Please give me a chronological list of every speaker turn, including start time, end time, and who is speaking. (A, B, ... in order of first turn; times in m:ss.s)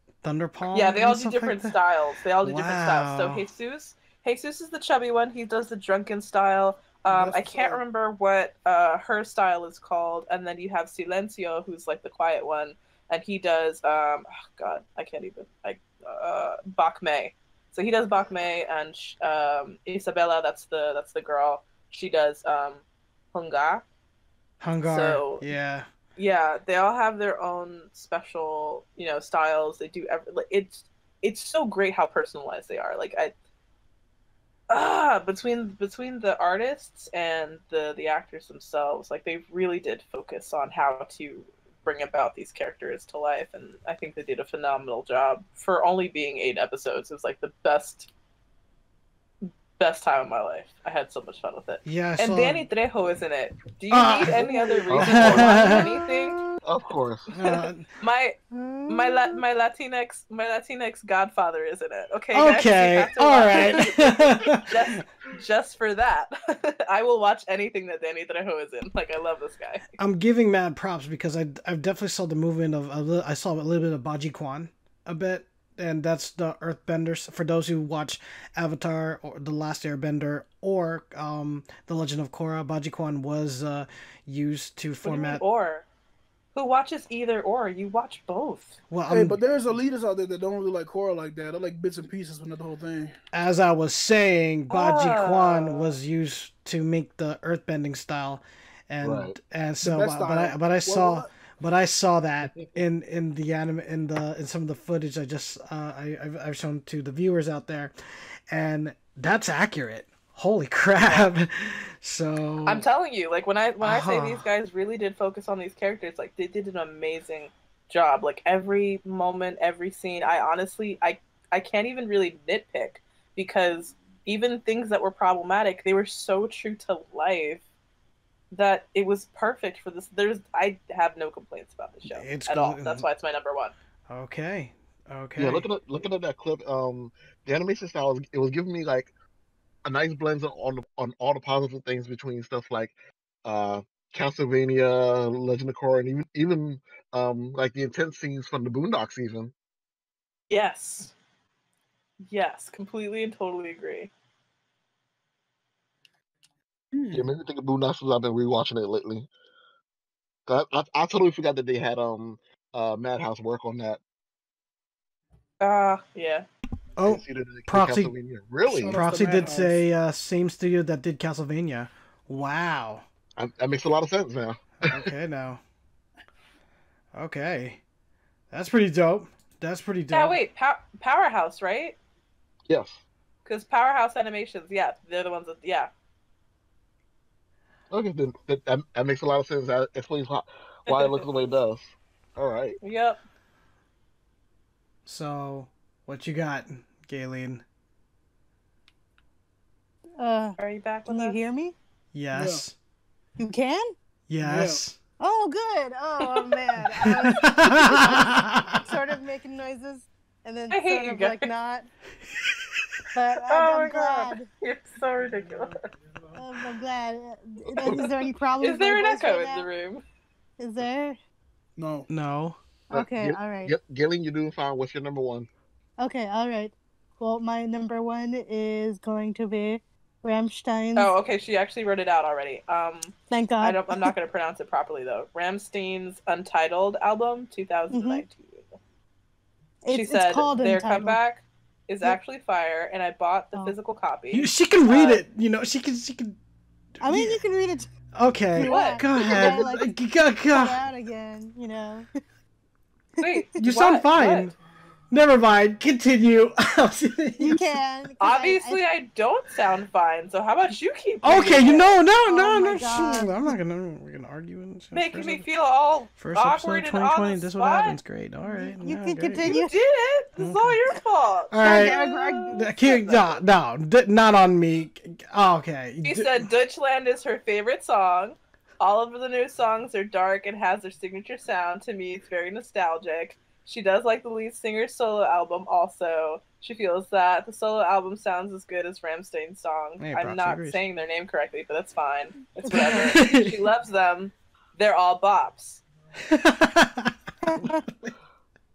0:00.2-0:01.8 A
0:00.7-0:22.8 B
0:02.4-0:03.4 A
0:07.1-0:07.8 C
0:23.3-0:23.8 B
0:24.6-0:25.9 A
0:24.8-0:25.4 B
0:26.2-0:33.3 B
0:34.7-0:48.1 B
0:49.8-0:56.5 B
0:51.8-0:52.7 A
0:53.9-0:55.9 A
0:54.4-0:54.9 D
0:54.9-0:55.7 E
0:55.4-0:56.6 D
0:56.6-0:57.3 E
0:57.3-0:57.9 A
0:57.5-1:10.0 B
0:58.5-0:59.4 D
1:02.3-1:05.0 A
1:10.0-1:25.4 A
1:25.0-1:25.8 B
1:26.5-1:28.8 B
1:28.9-1:29.4 A
1:29.1-1:33.2 C
1:33.3-1:47.9 A
1:34.7-1:36.0 B
1:39.0-1:39.4 E
1:39.8-1:41.3 C
1:48.5-1:52.9 A
1:51.0-1:51.3 B
1:52.7-2:07.6 B
1:53.8-1:54.4 A
2:08.5-2:13.7 B
2:12.1-2:13.1 A
2:14.1-2:15.7 A
2:15.4-2:19.1 E
2:19.8-2:29.5 E
2:30.5-2:31.1 B
2:32.3-2:34.1 B
2:36.9-2:37.3 C
2:37.1-2:39.3 E
2:40.5-2:44.0 E
2:45.6-2:46.5 B
2:47.0-2:48.1 A
2:47.0-2:49.0 E
2:48.6-2:49.8 C
2:48.9-2:53.1 A
2:53.4-2:55.1 E
2:54.9-2:55.6 A
2:57.1-2:57.8 A
2:58.5-3:00.4 A
3:00.1-3:02.0 B
3:02.7-3:03.0 E
3:03.4-3:05.9 B
3:07.9-3:12.8 E
3:10.9-3:11.2 B
3:12.8-3:13.2 B
3:15.1-3:17.6 A
3:20.2-3:21.8 D
3:20.6-3:21.4 B
3:22.1-3:22.8 A
3:22.3-3:22.6 C
3:23.4-3:24.0 D
3:24.3-3:25.0 A
3:24.4-3:24.8 C
3:25.2-3:31.9 D
3:26.2-3:27.3 B
3:27.1-3:28.8 A
3:30.7-3:31.5 B
3:33.1-3:34.5 D
3:33.5-3:35.9 B
3:36.4-3:39.7 D
3:37.8-3:38.2 E
3:38.6-3:40.0 B
3:40.6-3:41.2 D
3:41.8-3:42.1 C
3:42.1-3:42.6 A
3:42.9-3:45.5 E
3:42.9-3:43.7 D
3:46.0-3:51.1 D
3:51.0-3:58.8 B
3:53.3-3:54.1 D
3:57.9-3:58.2 D
3:59.8-4:01.2 D
3:59.9-4:05.2 B
4:04.3-4:06.4 A
4:07.0-4:07.4 A
4:07.0-4:07.9 D
4:08.2-4:10.8 A
4:08.6-4:10.0 D
4:08.6-4:09.4 B
4:10.5-4:12.1 D
4:13.2-4:14.5 B
4:13.6-4:14.6 A
4:15.1-4:17.6 A
4:17.4-4:18.8 D
4:18.2-4:22.0 B
4:21.2-4:25.4 A
4:22.3-4:23.6 D
4:24.9-4:28.0 B
4:26.2-4:29.6 A
4:28.4-4:29.7 D
4:29.4-4:33.4 B
4:30.4-4:30.8 A
4:31.5-4:36.5 A
4:31.6-4:32.7 D
4:36.0-4:55.8 B
4:50.0-4:50.8 A
4:52.7-4:53.5 A
4:56.3-4:57.8 A
4:57.5-4:57.8 D